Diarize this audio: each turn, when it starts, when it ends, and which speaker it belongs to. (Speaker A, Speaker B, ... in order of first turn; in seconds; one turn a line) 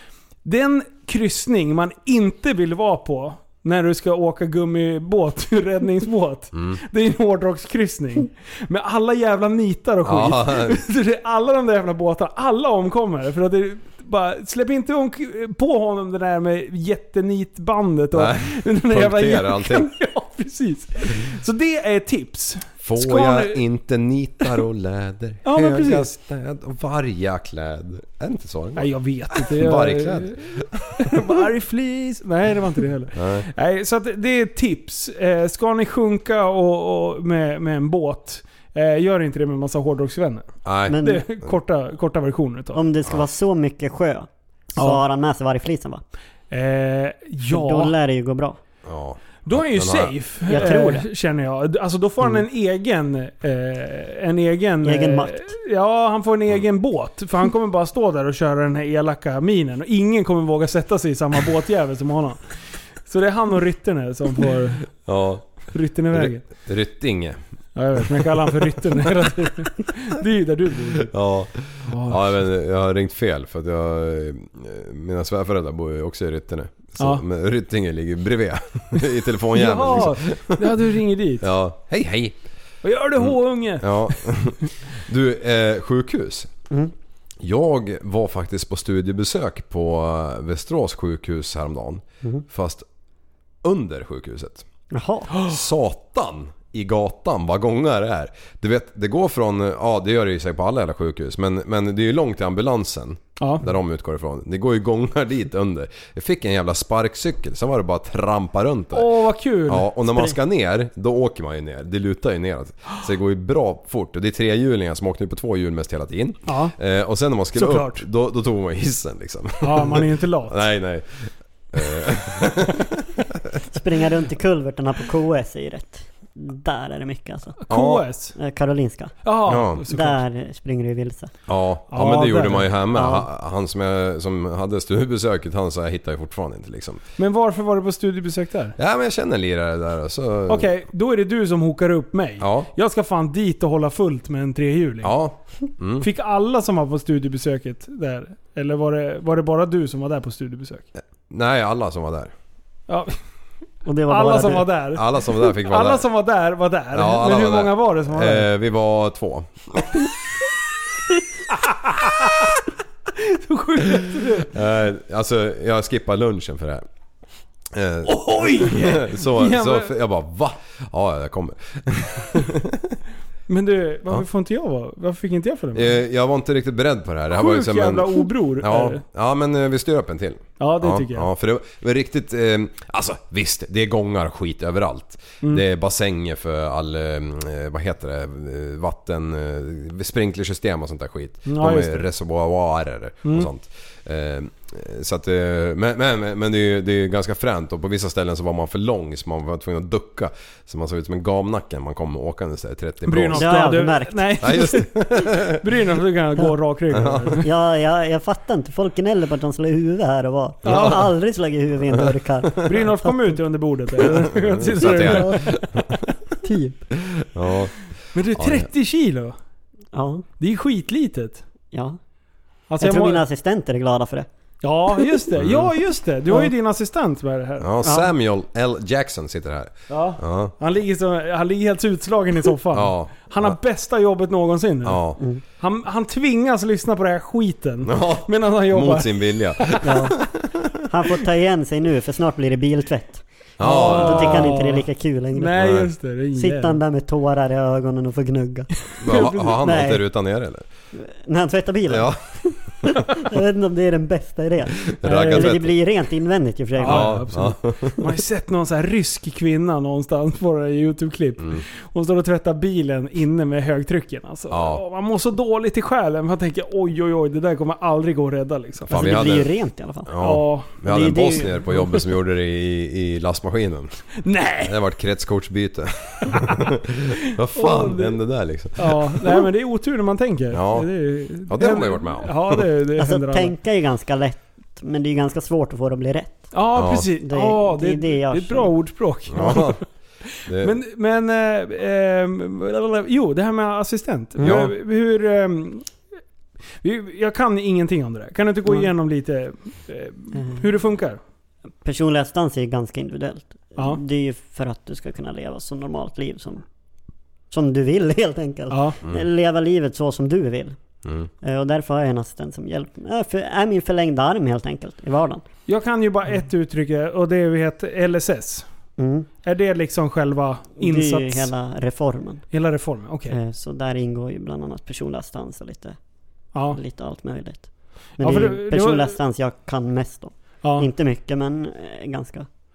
Speaker A: 0.4-23.6
Speaker B: 6.5-6.8
Speaker B: 10.0-10.8
Speaker B: 18.1-19.9
Speaker B: 22.8-31.3
Speaker A: 25.4-26.1
Speaker A: 28.8-42.8
Speaker B: 33.1-33.5
Speaker B: 40.6-41.5
Speaker C: 40.9-41.2
Speaker C: 42.7-46.0
Speaker A: 44.8-45.0
Speaker A: 46.5-47.9
Speaker C: 47.5-48.6
Speaker B: 48.8-50.2
Speaker A: 49.4-62.4
Speaker C: 50.5-51.0
Speaker C: 54.8-55.5
Speaker A: 63.0-65.0
Speaker B: 65.0-67.4
Speaker A: 65.7-66.5
Speaker A: 67.8-71.1
Speaker B: 68.0-68.3
Speaker B: 71.0-80.9
Speaker A: 71.8-72.3
Speaker A: 79.5-81.5
Speaker B: 81.4-82.4
Speaker A: 82.8-84.7
Speaker B: 83.2-86.5
Speaker B: 87.4-92.8
Speaker B: 93.6-94.7
Speaker C: 94.9-95.3
Speaker B: 95.3-109.1
Speaker A: 103.4-103.7
Speaker A: 108.9-109.9
Speaker B: 109.7-123.2
Speaker A: 116.5-116.8
Speaker A: 117.5-118.0
Speaker A: 119.6-120.6
Speaker C: 123.7-127.6
Speaker A: 127.6-128.3
Speaker B: 127.7-128.1
Speaker C: 128.3-129.3
Speaker A: 129.2-130.2
Speaker B: 129.5-129.8
Speaker C: 129.8-131.3
Speaker B: 131.5-137.0
Speaker A: 131.9-132.7
Speaker C: 132.9-133.2
Speaker A: 137.2-138.8
Speaker B: 138.8-140.7
Speaker A: 140.5-145.2
Speaker B: 142.4-142.7
Speaker B: 145.0-146.1
Speaker A: 146.0-150.9
Speaker B: 151.3-152.3
Speaker A: 152.9-153.2
Speaker C: 153.8-154.7
Speaker A: 154.1-158.5
Speaker B: 154.9-156.1
Speaker B: 156.9-160.0
Speaker A: 161.7-162.5
Speaker A: 163.1-164.5
Speaker B: 164.0-166.8
Speaker B: 167.7-173.0
Speaker A: 168.0-169.9
Speaker A: 173.5-176.0
Speaker B: 175.7-203.6
Speaker A: 177.3-179.0
Speaker A: 180.6-181.3
Speaker A: 191.4-192.1
Speaker A: 203.1-207.5
Speaker C: 203.3-204.5
Speaker B: 204.4-205.6
Speaker B: 206.9-207.4
Speaker C: 207.4-213.4
Speaker B: 210.6-211.0
Speaker A: 210.6-211.1
Speaker A: 212.6-215.6
Speaker B: 214.0-215.9
Speaker C: 214.8-215.6
Speaker C: 216.4-216.8
Speaker B: 217.2-217.8
Speaker A: 218.1-219.3
Speaker B: 218.3-218.7
Speaker C: 219.9-220.2
Speaker A: 220.4-221.4
Speaker C: 221.7-222.0
Speaker A: 222.7-223.2
Speaker C: 222.8-224.3
Speaker A: 224.6-227.7
Speaker B: 225.4-225.7
Speaker B: 227.6-230.5
Speaker C: 227.8-228.1
Speaker A: 229.9-240.0
Speaker B: 232.7-233.6
Speaker B: 234.8-235.2
Speaker B: 237.8-240.7
Speaker C: 239.8-240.2
Speaker C: 240.9-245.5
Speaker B: 243.6-244.6
Speaker A: 243.6-246.8
Speaker B: 245.5-245.9
Speaker C: 246.3-248.7
Speaker B: 249.0-250.7
Speaker A: 249.1-249.6
Speaker C: 249.6-250.0
Speaker C: 250.9-252.5
Speaker B: 251.9-253.1
Speaker C: 253.1-257.2
Speaker B: 254.9-255.7
Speaker A: 255.1-255.5
Speaker A: 256.8-269.0
Speaker B: 256.8-258.0
Speaker B: 261.4-261.6
Speaker B: 264.5-264.8
Speaker B: 268.9-269.5
Speaker C: 268.9-270.1
Speaker B: 270.1-274.0
Speaker A: 270.2-270.9
Speaker C: 270.8-271.5
Speaker A: 274.2-274.7
Speaker B: 274.6-279.4
Speaker A: 277.5-278.2
Speaker A: 278.8-283.5
Speaker B: 280.5-282.6
Speaker C: 283.0-286.5
Speaker A: 286.5-289.8
Speaker B: 286.7-287.1
Speaker C: 287.2-288.7
Speaker B: 289.3-289.8
Speaker A: 290.4-295.9
Speaker B: 290.4-290.8
Speaker B: 294.4-294.7
Speaker A: 296.8-301.2
Speaker C: 300.4-300.6
Speaker C: 301.8-306.6
Speaker C: 307.5-310.8
Speaker A: 308.7-309.0
Speaker B: 311.0-311.3
Speaker C: 311.4-315.4
Speaker A: 315.7-318.6
Speaker C: 319.0-319.3
Speaker A: 319.4-321.5
Speaker C: 320.8-322.4
Speaker A: 322.5-323.4
Speaker C: 323.3-326.0
Speaker A: 326.5-326.8
Speaker C: 326.7-332.5
Speaker A: 328.2-329.1